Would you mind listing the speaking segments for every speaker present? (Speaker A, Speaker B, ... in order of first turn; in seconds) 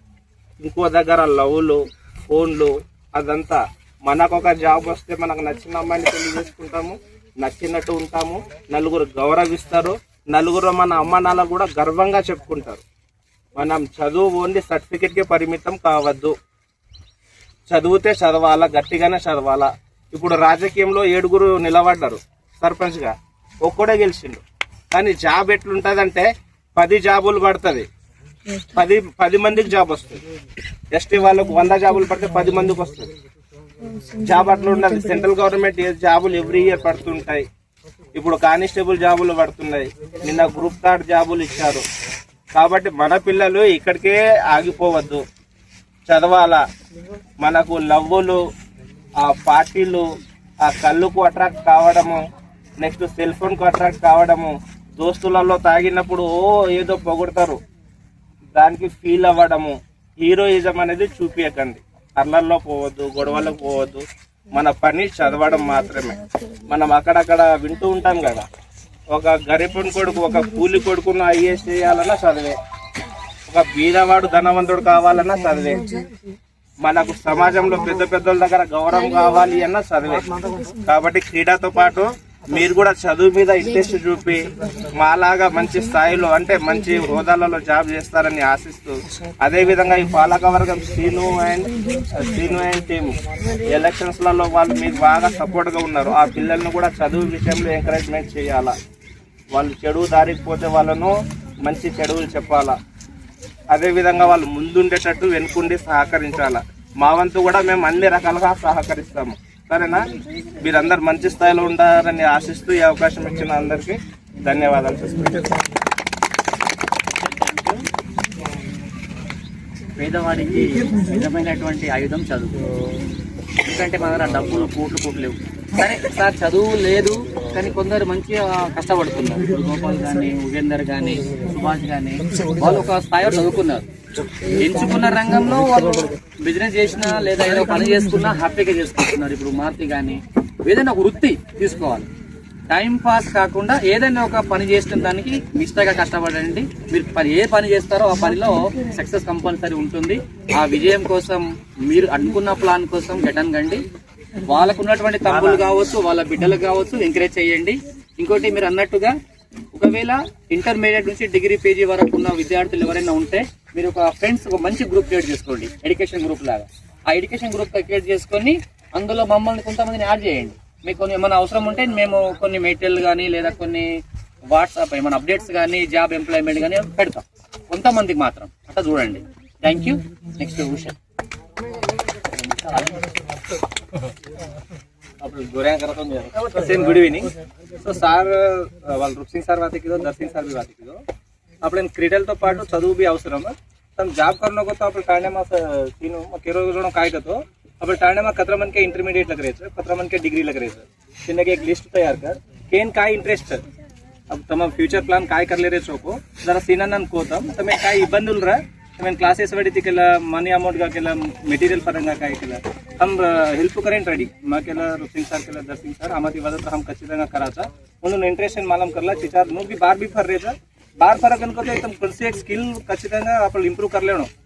Speaker A: 0.6-12.8, 13.5-16.3, 17.7-27.9, 28.7-30.2, 30.9-33.1, 34.2-37.5, 38.1-41.8, 42.5-45.2, 46.1-46.6, 47.4-48.4, 49.2-50.0, 50.6-52.2, 52.8-57.6, 58.5-68.5, 69.1-72.6, 73.5-75.9, 76.8-80.3, 80.8-98.7, 99.5-102.8, 103.7-110.0, 110.6-115.5, 155.3-155.6, 185.2-191.0, 191.6-193.4, 194.6-195.3, 196.5-197.3, 197.9-199.7, 202.8-203.5, 204.6-206.1, 206.9-210.9, 211.7-212.4, 213.1-214.1, 215.5-217.2, 219.8-220.1, 222.8-223.9
Speaker B: 117.2-117.8, 120.0-122.6, 123.6-133.9, 134.5-142.1, 142.7-153.8, 154.4-159.1, 159.7-173.9, 174.5-181.0, 182.4-183.0
Speaker C: 185.2-187.3, 188.0-191.0, 191.6-203.6, 204.3-224.3